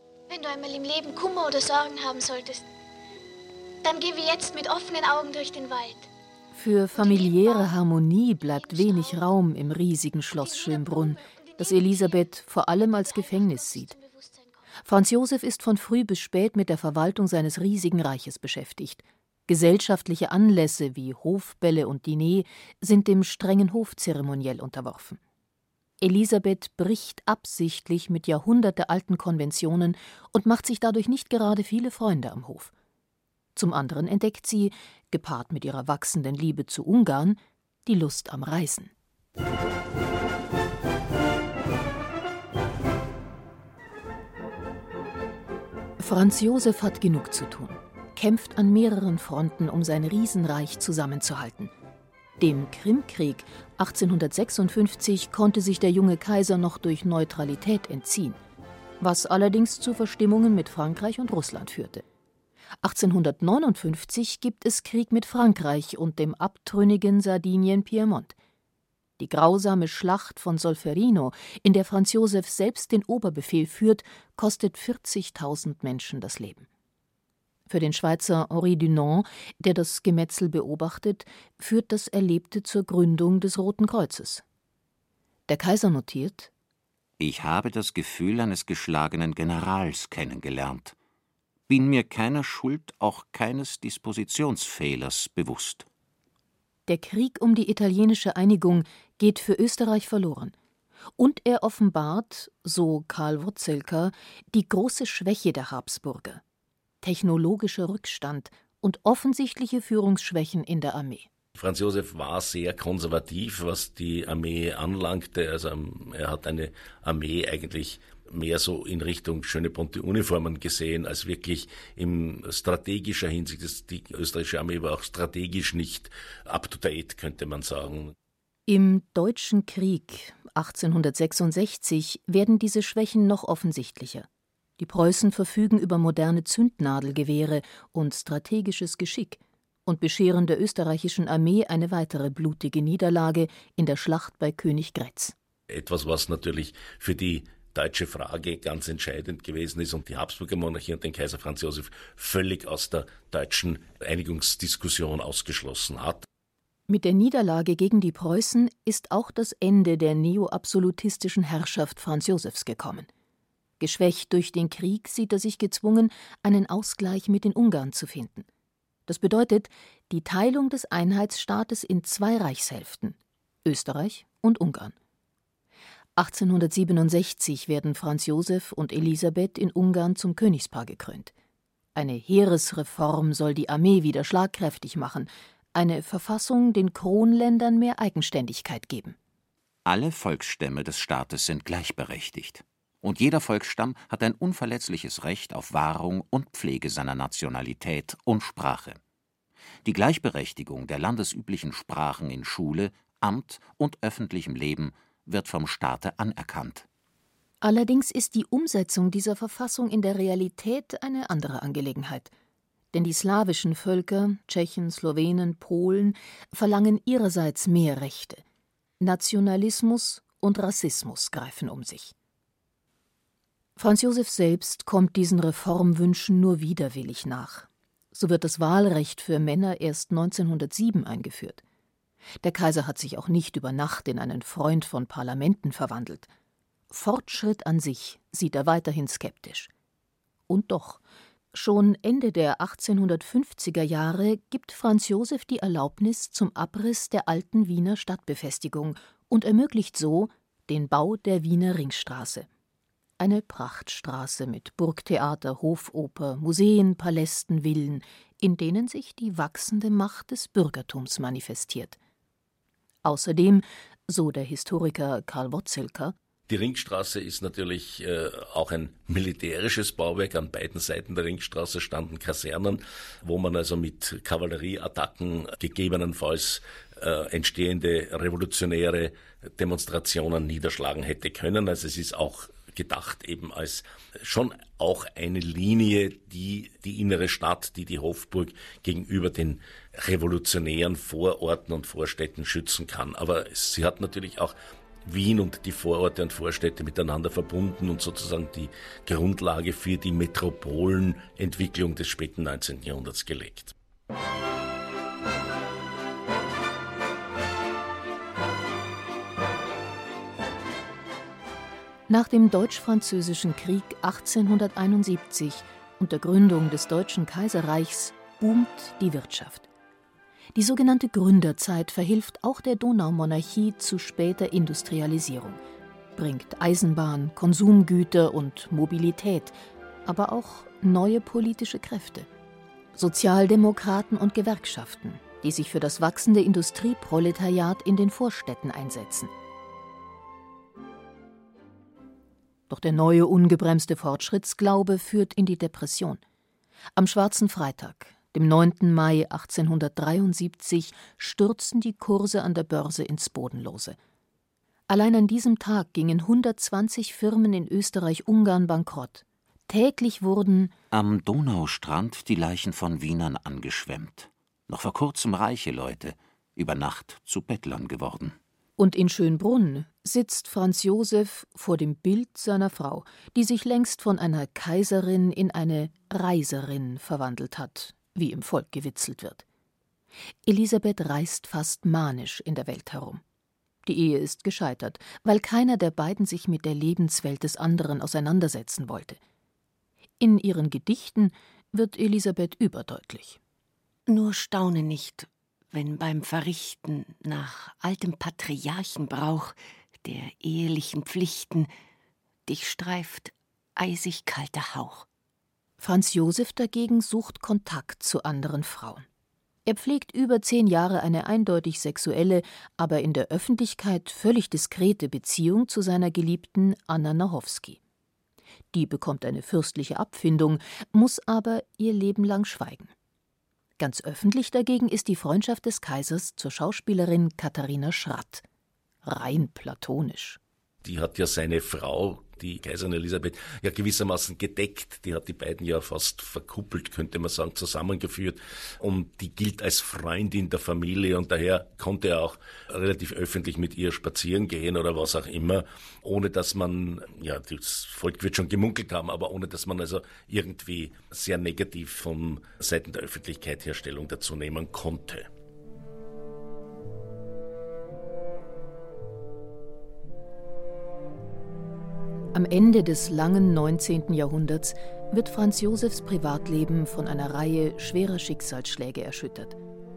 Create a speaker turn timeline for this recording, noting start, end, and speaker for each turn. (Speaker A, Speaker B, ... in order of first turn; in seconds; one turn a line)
Speaker A: 0.3-2.6
Speaker A: 3.8-6.1
Speaker B: 6.5-13.9
Speaker A: 7.0-7.7
Speaker A: 8.4-9.2
Speaker A: 10.4-14.6
Speaker B: 14.9-25.2
Speaker B: 26.0-32.7
Speaker B: 33.6-38.9
Speaker B: 46.0-51.7
Speaker B: 52.4-58.4
Speaker B: 59.0-62.0
Speaker B: 62.8-68.3
Speaker B: 69.2-76.7
Speaker B: 77.7-84.4
Speaker B: 85.5-86.5
Speaker C: 87.2-91.0
Speaker C: 91.7-95.9
Speaker B: 96.9-100.5
Speaker B: 101.2-106.4
Speaker B: 107.0-111.3
Speaker D: 111.6-128.1
Speaker B: 128.7-134.3
Speaker B: 134.8-145.3
Speaker D: 145.7-156.2
Speaker B: 156.9-163.1
Speaker B: 163.8-168.5
Speaker B: 169.1-174.9
Speaker B: 176.2-181.3
Speaker B: 181.9-189.2
Speaker C: 189.9-199.0
Speaker C: 199.8-206.9
Speaker B: 207.6-212.3
Speaker B: 212.9-218.4
Speaker B: 219.0-222.1
Speaker B: 223.8-231.6
Speaker B: 232.4-236.3
Speaker B: 236.9-239.7
Speaker B: 240.5-241.0
Speaker B: 241.5-252.5
Speaker B: 253.2-262.0
Speaker B: 263.0-266.1
Speaker D: 266.5-294.5
Speaker D: 295.1-303.7
Speaker B: 312.1-319.7
Speaker B: 320.6-325.6
Speaker B: 326.1-332.3
Speaker B: 332.9-339.3
Speaker B: 342.7-346.2
Speaker B: 347.0-354.0
Speaker B: 354.9-360.7
Speaker C: 360.9-368.4
Speaker B: 368.8-379.4
Speaker B: 380.5-383.2
Speaker B: 383.8-389.2
Speaker B: 390.2-393.4
Speaker E: 394.1-395.2
Speaker E: 395.7-399.5
Speaker E: 400.1-401.7
Speaker E: 402.5-403.3
Speaker E: 403.8-405.0
Speaker B: 405.8-409.0
Speaker B: 409.7-417.8
Speaker B: 418.7-422.9
Speaker B: 423.8-428.4
Speaker B: 429.0-430.4
Speaker D: 430.8-455.3
Speaker B: 462.3-469.6